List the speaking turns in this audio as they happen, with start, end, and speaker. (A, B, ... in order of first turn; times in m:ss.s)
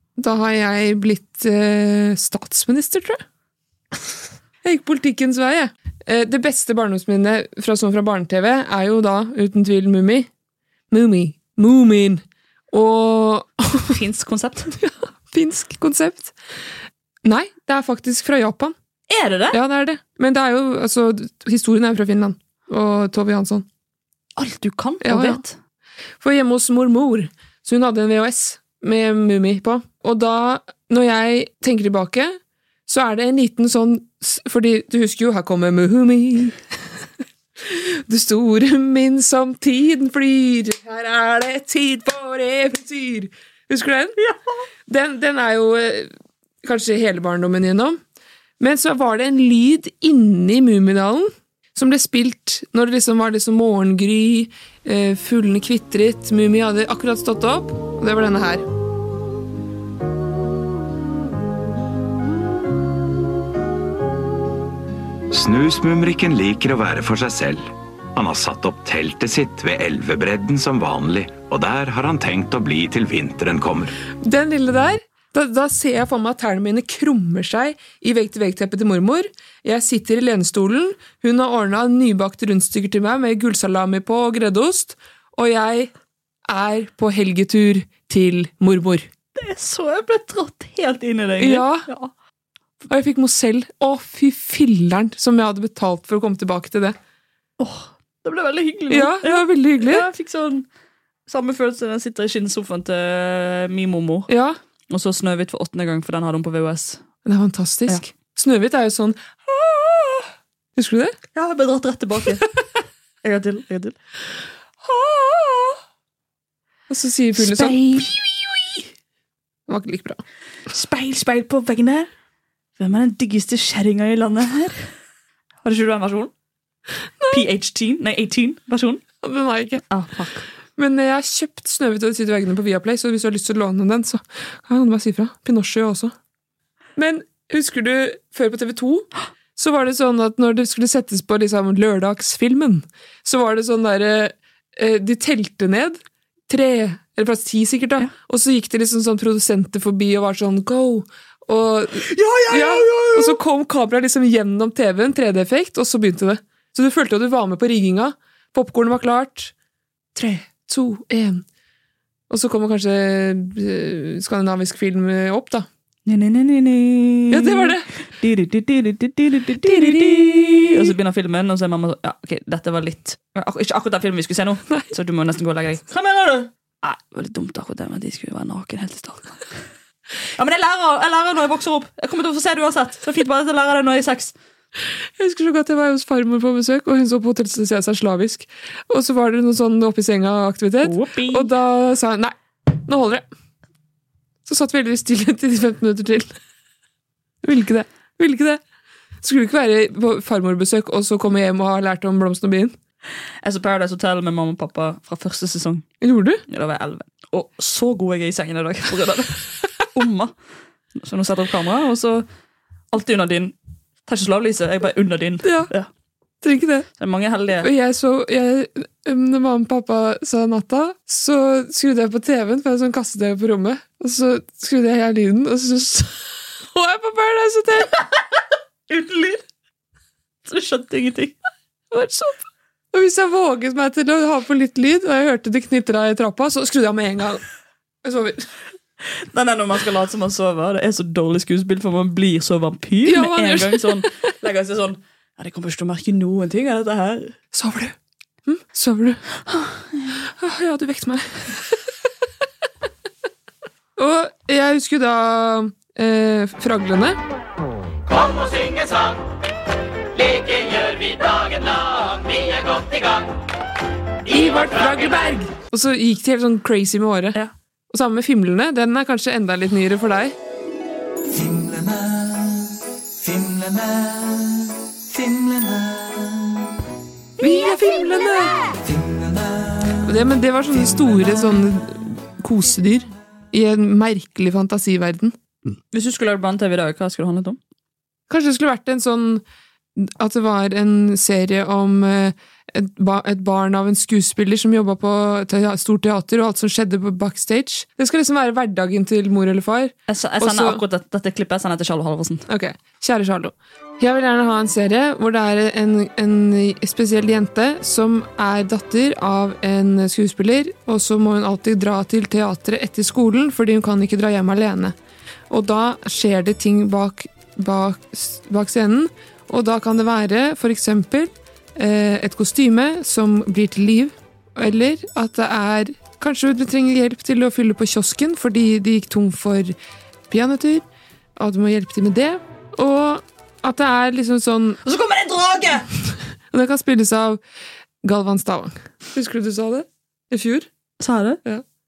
0:00.2-0:03.2 A
0:04.6-0:10.3 A
0:10.9-0:14.0 A
0:13.8-0:14.7 B
0:14.8-0:16.4 A
0:17.2-0:18.7 A
0:19.1-0:19.6 B
0:19.5-0:23.7 A
0:24.4-0:25.6 B
0:25.0-0:25.4 A
0:26.2-0:36.6 A
0:37.6-0:44.2 A
0:44.9-0:46.1 A
0:46.6-0:48.0 A
0:48.6-0:58.6 A
1:05.3-1:14.0 C
1:14.2-1:25.9 A
1:26.5-1:29.1 A
1:29.4-1:32.1 B
1:31.4-1:31.9 A
1:32.9-1:37.0 A
1:37.6-1:40.7 B
1:38.9-1:40.1 A
1:41.3-1:44.3 B
1:44.3-1:44.6 A
1:44.9-1:47.0 B
1:47.2-1:51.2 A
1:51.3-1:52.5 B
1:53.2-1:54.0 B
1:54.8-1:55.8 A
1:56.9-1:58.8 A
1:57.4-1:58.2 B
1:59.7-2:00.2 A
2:00.7-2:02.1 B
2:02.8-2:04.9 B
2:05.6-2:06.3 B
2:07.2-2:07.4 A
2:07.3-2:09.0 B
2:09.2-2:09.8 A
2:09.9-2:10.5 B
2:10.8-2:16.1 A
2:17.0-2:39.5 A
2:31.9-2:33.4 B
2:40.2-2:41.4 A
2:42.3-2:45.7 A
2:46.1-2:59.4 B
2:47.3-2:47.9 A
2:49.6-2:50.9 A
3:00.4-3:04.3 B
3:05.2-3:13.3 A
3:10.8-3:11.5 B
3:14.5-3:16.3 A
3:17.4-3:18.6 A
3:19.2-3:22.8 A
3:23.4-3:25.9 B
3:26.0-3:26.4 A
3:26.5-3:30.3 B
3:31.0-3:32.2 B
3:32.9-3:33.6 B
3:34.1-3:35.9 B
3:35.4-3:35.7 A
3:36.4-3:36.9 A
3:37.0-3:37.7 B
3:37.6-3:48.0 A
3:48.9-3:49.4 B
3:50.4-3:51.4 B
3:51.9-3:57.4 A
3:58.0-3:58.5 A
3:59.3-4:07.4 B
4:03.0-4:04.0 A
4:07.5-4:08.0 A
4:08.5-4:09.2 A
4:09.5-4:10.2 B
4:10.2-4:11.8 A
4:14.0-4:17.2 A
4:24.3-4:27.4 A
4:27.9-4:30.4 A
4:31.3-4:36.7 D
4:37.4-4:38.6 A
4:38.8-4:40.2 D
4:40.0-4:45.3 A
4:40.7-4:41.4 D
4:45.9-4:47.6 B
4:48.3-4:49.4 A
4:50.0-5:00.8 A
5:00.1-5:02.4 B
5:02.5-5:15.0 A
5:15.5-5:29.8 A
5:30.3-5:34.8 A
5:34.8-5:35.9 B
5:36.5-5:37.4 A
5:38.0-5:40.7 A
5:41.0-5:41.4 B